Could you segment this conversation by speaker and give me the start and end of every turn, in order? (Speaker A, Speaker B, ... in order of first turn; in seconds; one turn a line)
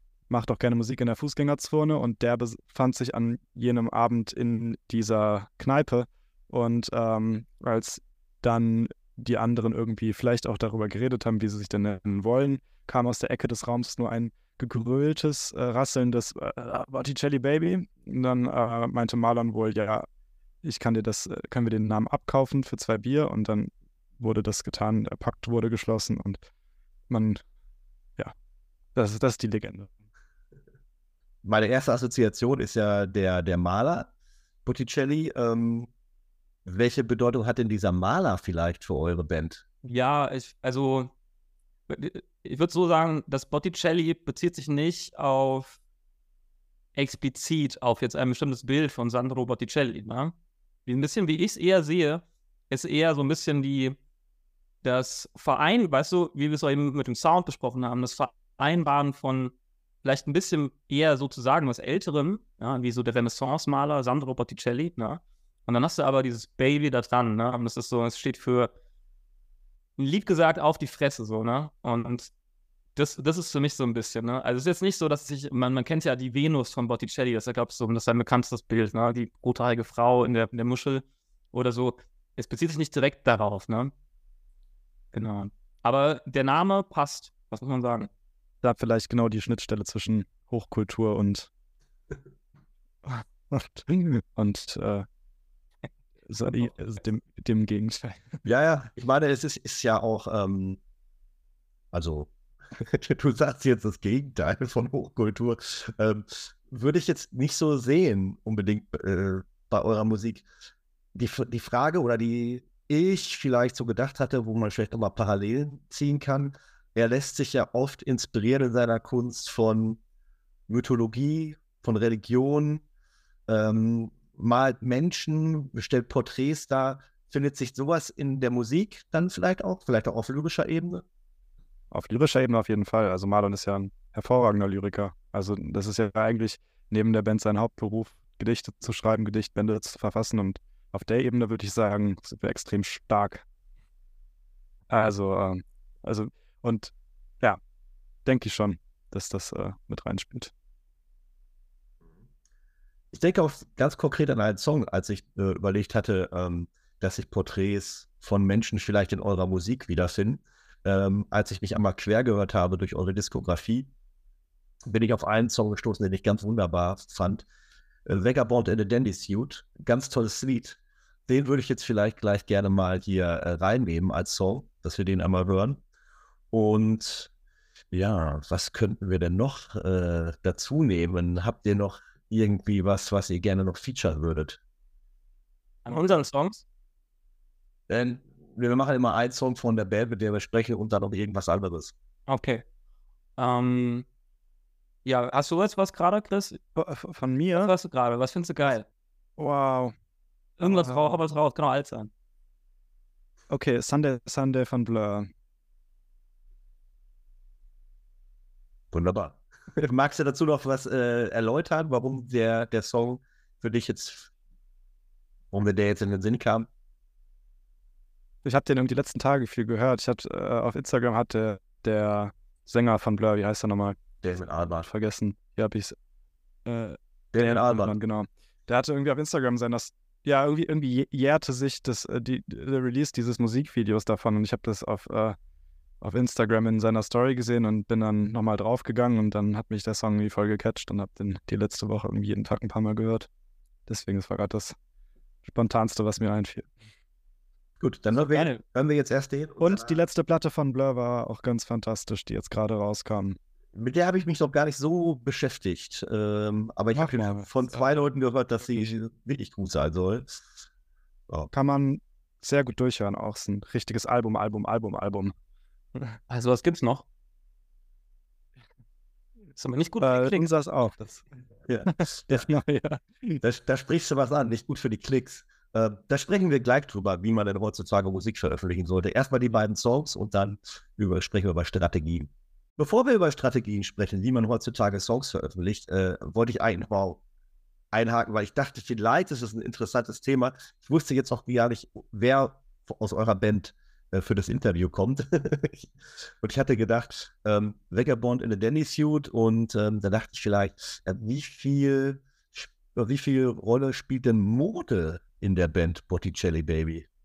Speaker A: 0.3-20.1
Speaker A: 20.6-26.4
Speaker A: 27.1-27.4
Speaker A: 29.0-29.9
Speaker B: 31.4-34.1
Speaker B: 34.7-35.9
Speaker B: 36.6-39.6
Speaker C: 39.8-41.1
Speaker C: 41.9-45.8
Speaker C: 47.0-50.3
Speaker C: 50.9-54.0
Speaker C: 54.8-68.7
Speaker C: 70.0-72.3
Speaker C: 73.0-83.9
Speaker C: 85.1-88.1
Speaker A: 88.6-91.5
Speaker A: 93.0-95.1
Speaker A: 96.3-98.4
Speaker B: 98.4-100.8
Speaker B: 101.9-110.5
Speaker B: 111.2-120.0
Speaker B: 120.7-122.8
Speaker B: 123.5-131.0
Speaker A: 131.9-143.4
Speaker A: 144.9-147.6
Speaker A: 148.2-150.5
Speaker B: 153.1-163.9
Speaker B: 164.8-167.4
Speaker B: 168.1-175.8
Speaker B: 176.5-177.3
Speaker B: 177.9-184.6
Speaker C: 185.8-186.6
Speaker B: 187.9-191.9
Speaker C: 192.3-192.6
Speaker C: 193.4-194.1
Speaker C: 195.1-196.6
Speaker A: 196.8-197.7
Speaker C: 197.6-198.9
Speaker A: 199.4-199.9
Speaker C: 200.6-202.1
Speaker A: 200.6-201.1
Speaker A: 203.5-205.3
Speaker B: 208.9-214.3
Speaker B: 215.5-216.7
Speaker A: 218.4-224.0
Speaker B: 224.2-224.9
Speaker A: 224.8-225.9
Speaker A: 226.7-235.4
Speaker B: 227.3-227.9
Speaker A: 236.0-243.3
Speaker A: 243.9-244.8
Speaker A: 245.4-246.7
Speaker B: 247.8-250.0
Speaker C: 248.2-248.6
Speaker A: 249.6-253.4
Speaker B: 253.7-260.4
Speaker A: 256.9-257.8
Speaker A: 261.5-265.3
Speaker C: 266.3-267.1
Speaker C: 269.6-270.5
Speaker A: 270.0-271.2
Speaker B: 271.7-272.5
Speaker A: 271.9-273.4
Speaker B: 273.4-287.2
Speaker B: 287.9-295.9
Speaker B: 296.4-307.1